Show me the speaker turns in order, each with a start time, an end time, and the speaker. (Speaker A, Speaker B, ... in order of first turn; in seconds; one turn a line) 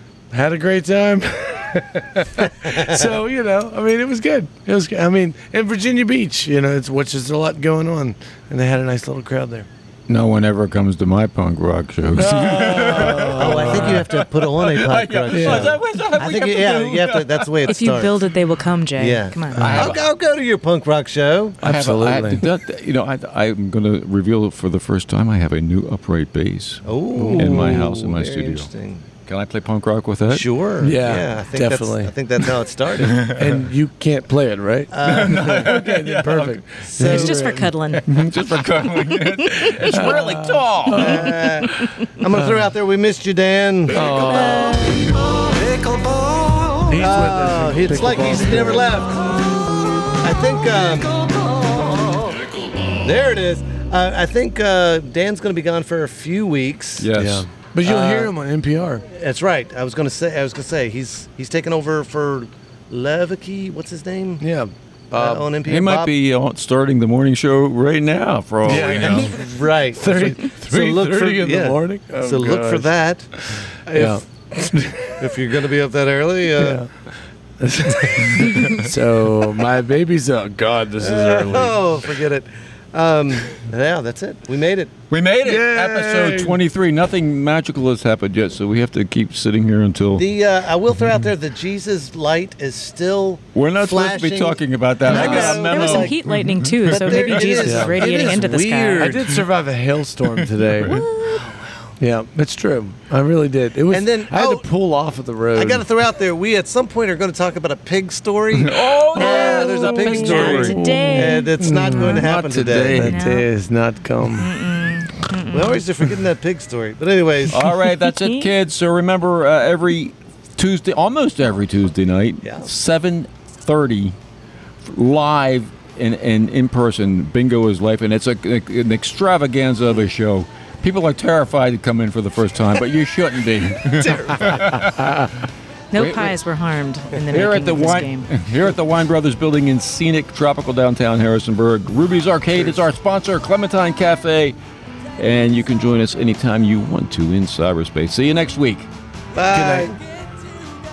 Speaker A: 0.3-9.7
Speaker B: 2.6-3.0
Speaker C: 10.1-17.5
Speaker A: 12.1-14.1
Speaker B: 12.2-18.1
Speaker A: 15.3-15.8
Speaker D: 17.7-19.7
Speaker B: 19.0-21.6
Speaker A: 19.6-19.9
Speaker C: 19.6-20.1
Speaker A: 21.6-22.4
Speaker C: 21.6-30.5
Speaker B: 26.8-29.0
Speaker A: 27.1-27.7
Speaker B: 30.3-33.4
Speaker A: 30.8-32.1
Speaker C: 33.0-33.4
Speaker A: 33.2-37.7
Speaker B: 34.9-35.8
Speaker C: 35.0-36.6
Speaker B: 36.8-37.5
Speaker D: 37.0-38.1
Speaker C: 38.0-41.3
Speaker D: 39.5-39.8
Speaker A: 39.9-41.5
Speaker B: 40.9-49.4
Speaker D: 41.6-41.9
Speaker A: 43.9-45.0
Speaker A: 46.9-49.0
Speaker B: 50.0-52.4
Speaker B: 52.9-57.1
Speaker C: 57.0-57.5
Speaker A: 57.1-59.0
Speaker B: 57.8-58.3
Speaker B: 59.1-64.4
Speaker A: 64.4-65.5
Speaker B: 65.1-66.1
Speaker C: 65.7-69.4
Speaker A: 68.6-72.9
Speaker B: 68.7-76.8
Speaker A: 73.9-75.1
Speaker A: 76.6-76.9
Speaker A: 77.6-81.8
Speaker B: 78.0-78.7
Speaker B: 81.0-84.9
Speaker C: 85.1-90.3
Speaker A: 85.4-86.6
Speaker B: 90.2-96.2
Speaker C: 93.5-97.6
Speaker D: 95.0-99.2
Speaker B: 96.8-99.4
Speaker A: 97.6-98.2
Speaker A: 99.0-101.0
Speaker C: 100.7-101.0
Speaker D: 100.9-101.4
Speaker B: 101.2-101.9
Speaker A: 102.0-105.8
Speaker B: 103.9-104.6
Speaker B: 105.5-113.1
Speaker C: 108.5-110.9
Speaker D: 109.2-112.2
Speaker A: 110.4-112.2
Speaker C: 111.9-113.2
Speaker A: 112.8-114.5
Speaker D: 113.0-113.5
Speaker D: 114.4-115.8
Speaker B: 115.5-117.6
Speaker C: 117.5-124.1
Speaker D: 117.9-118.5
Speaker B: 122.4-122.7
Speaker C: 124.8-135.3
Speaker B: 134.0-134.6
Speaker D: 135.9-138.3
Speaker C: 135.9-136.3
Speaker C: 137.2-144.6
Speaker C: 145.2-148.9
Speaker B: 149.3-150.0
Speaker A: 149.5-149.9